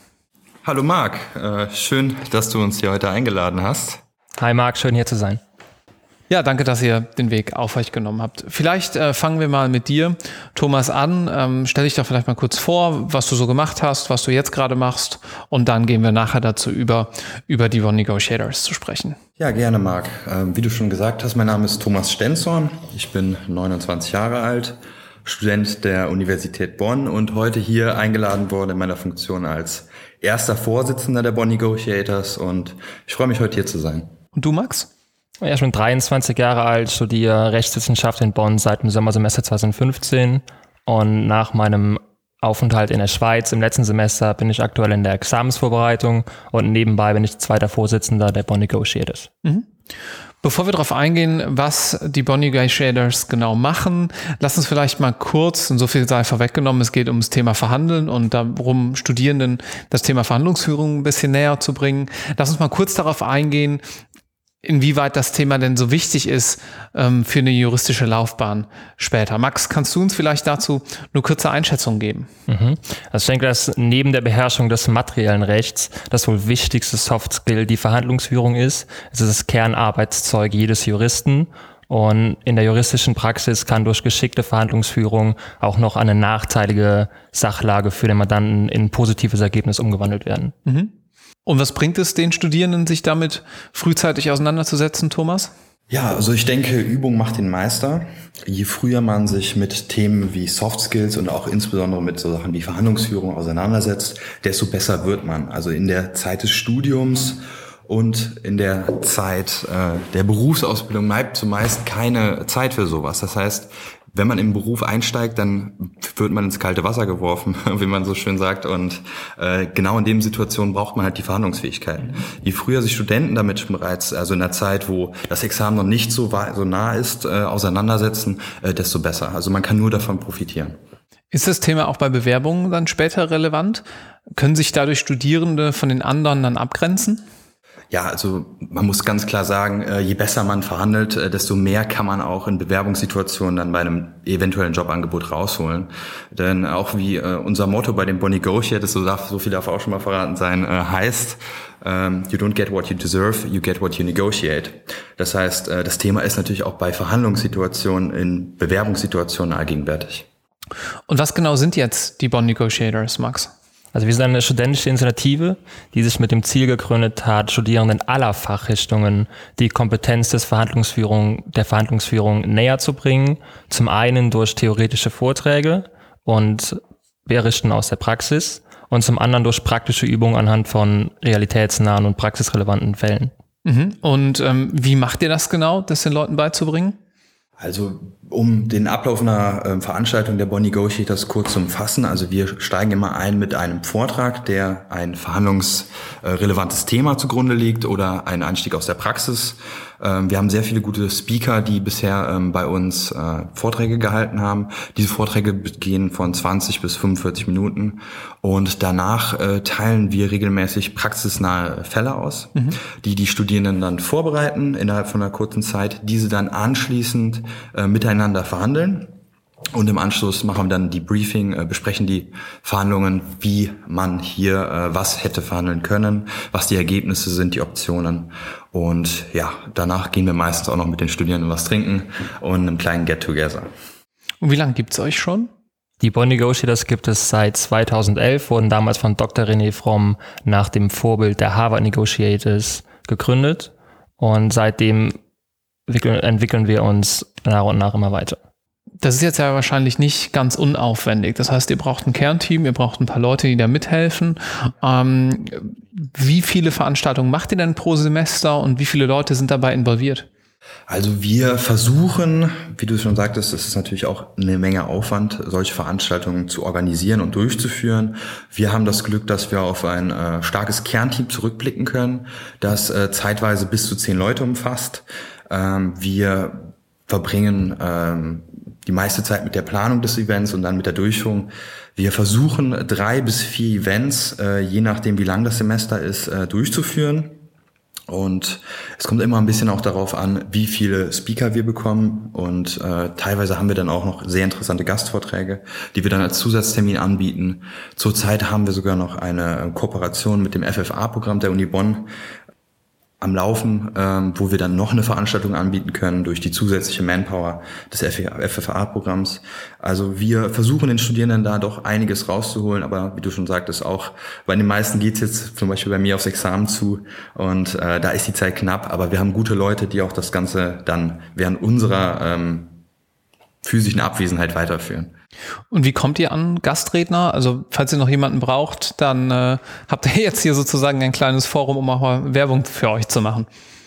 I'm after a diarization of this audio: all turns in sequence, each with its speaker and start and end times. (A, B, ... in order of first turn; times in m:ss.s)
0:00.6-0:04.0 A
0:04.4-0:05.4 B
0:06.3-0:19.2 C
0:19.4-0:34.1 A
0:34.3-0:34.9 C
0:35.4-0:49.3 B
0:50.4-1:03.8 C
1:04.6-1:12.3 C
1:12.5-1:30.5 B
1:30.6-1:30.9 C
1:31.4-1:35.5 C
1:35.9-2:10.8 A
2:11.3-2:13.8 C
2:14.3-2:17.2 C
2:17.9-2:40.2 A
2:41.1-2:43.5 C
2:43.9-3:03.3 B
3:03.6-3:07.0 C
3:07.6-3:39.1 A
3:39.7-3:53.7 A
3:54.4-3:55.5 C
3:56.0-4:05.1 B
4:05.9-4:08.4 B
4:09.0-4:20.3 C
4:20.9-4:36.6 A
4:37.1-4:47.4 A
4:48.1-5:02.1 A
5:03.2-5:22.8 A
5:23.6-5:25.1 A
5:25.7-5:33.5 C